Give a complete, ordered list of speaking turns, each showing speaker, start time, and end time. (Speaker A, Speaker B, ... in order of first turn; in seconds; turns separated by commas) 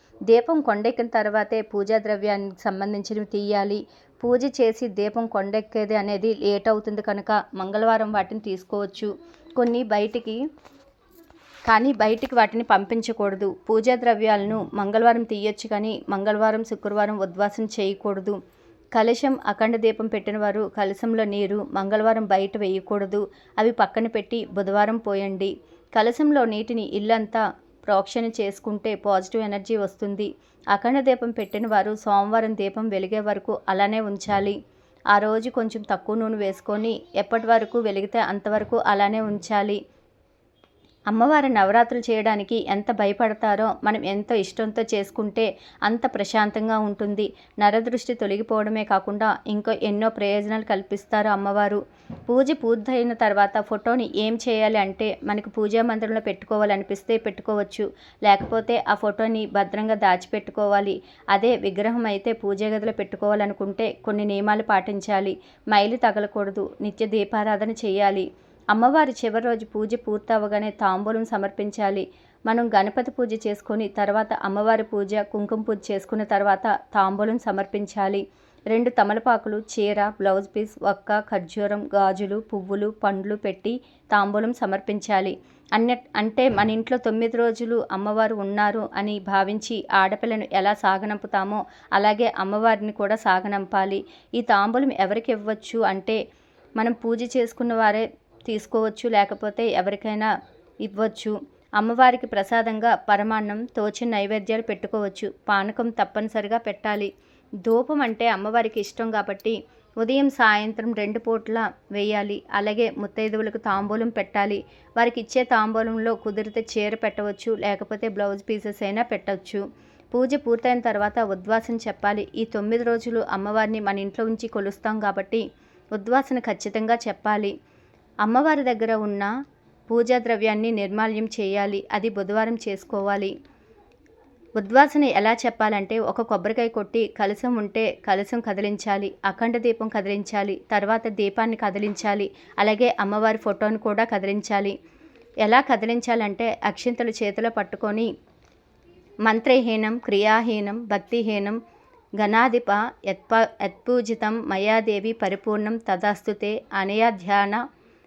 Speaker A: 0.3-10.4, Speaker A: 11.7-18.4, Speaker A: 18.9-34.5, Speaker A: 35.1-39.8, Speaker A: 41.1-96.2, Speaker A: 96.8-100.3, Speaker A: 100.8-107.1, Speaker A: 107.6-125.4, Speaker A: 125.9-127.5, Speaker A: 128.2-129.3, Speaker A: 129.9-133.3, Speaker A: 134.6-144.8, Speaker A: 145.4-148.1, Speaker A: 149.2-151.6, Speaker A: 152.2-157.6